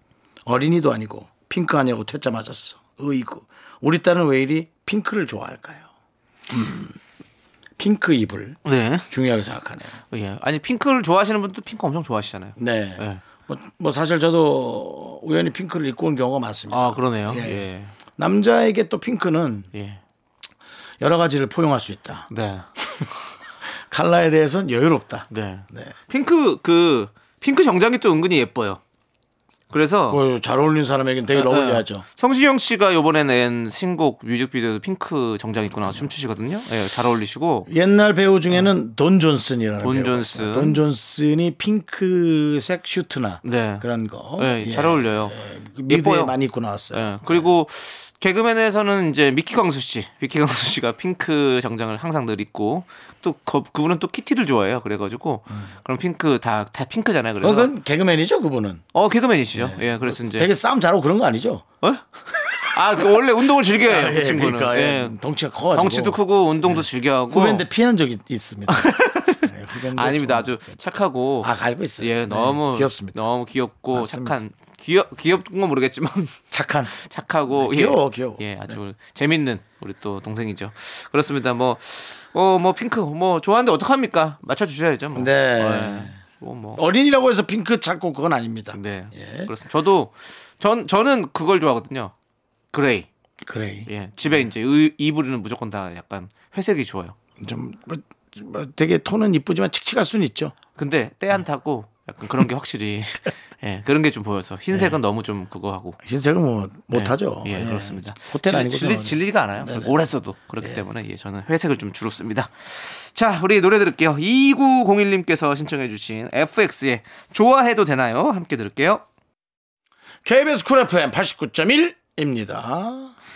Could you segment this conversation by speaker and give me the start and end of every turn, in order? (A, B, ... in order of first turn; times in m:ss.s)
0:00.4-0:05.8 A
0:06.5-0:07.0 A
0:07.8-0:10.0 A
0:08.6-0:09.1 B
0:10.1-0:13.2 B
0:12.6-0:17.6 A
0:16.7-0:17.9 B
0:18.2-0:19.7 A
0:19.7-0:20.0 B
0:21.0-0:22.3 A
0:22.3-0:22.7 B
0:23.9-0:25.9 A
0:25.3-0:28.8 B
0:29.7-0:30.2 B
0:30.1-0:32.0 A
0:31.3-0:37.7 B
0:37.7-0:47.5 A
0:39.8-0:40.8 B
0:43.4-0:43.8 B
0:44.4-0:45.4 B
0:45.9-0:46.4 B
0:46.9-0:57.7 B
0:57.4-0:58.8 A
0:58.9-1:00.5 B
0:59.5-1:01.6 A
1:02.7-1:05.2 B
1:03.8-1:10.5 A
1:05.7-1:07.6 B
1:08.7-1:16.4 B
1:11.4-1:13.2 A
1:13.9-1:14.4 A
1:16.5-1:16.9 A
1:16.9-1:26.8 B
1:17.5-1:18.8 A
1:25.1-1:26.2 A
1:26.8-1:29.5 A
1:28.7-1:32.1 B
1:32.7-1:33.1 B
1:33.4-1:33.9 A
1:33.9-1:37.2 B
1:37.4-1:40.5 A
1:40.8-1:46.0 B
1:46.0-1:49.9 A
1:46.9-1:59.0 B
2:00.2-2:03.1 A